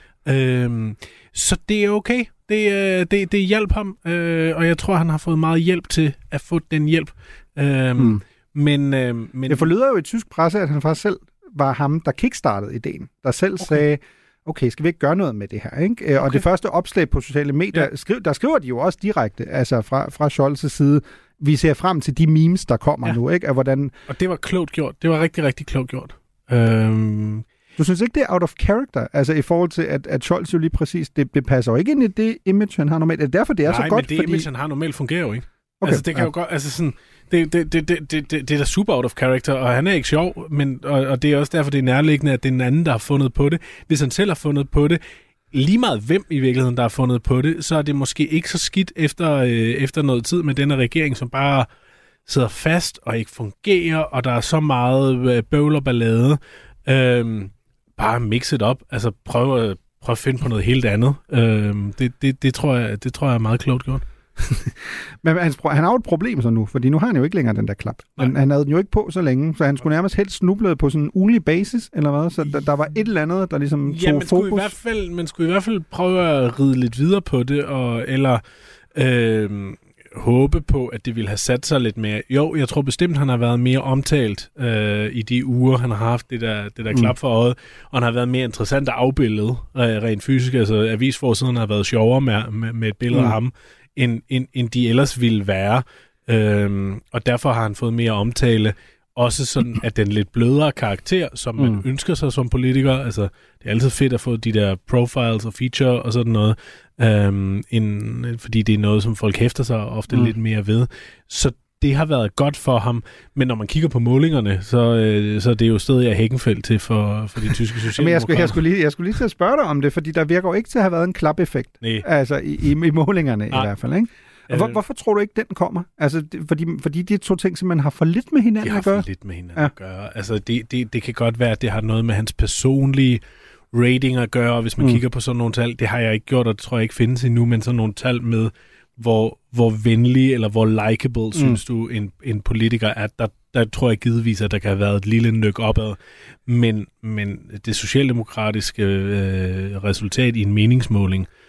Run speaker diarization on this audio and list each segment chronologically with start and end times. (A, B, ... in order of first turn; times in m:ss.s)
0:00.2-0:09.7 A
0:09.5-0:23.9 B
0:24.1-0:27.4 A
0:27.8-0:34.5 B
0:33.6-0:45.0 A
0:35.8-0:36.3 B
0:45.5-0:51.7 A
0:52.2-1:04.0 A
1:04.4-1:14.7 B
1:13.8-1:18.4 A
1:18.9-1:58.6 A
1:33.1-1:33.4 B
1:58.0-2:09.7 B
2:04.5-2:04.8 A
2:08.6-2:13.2 A
2:13.7-2:31.3 A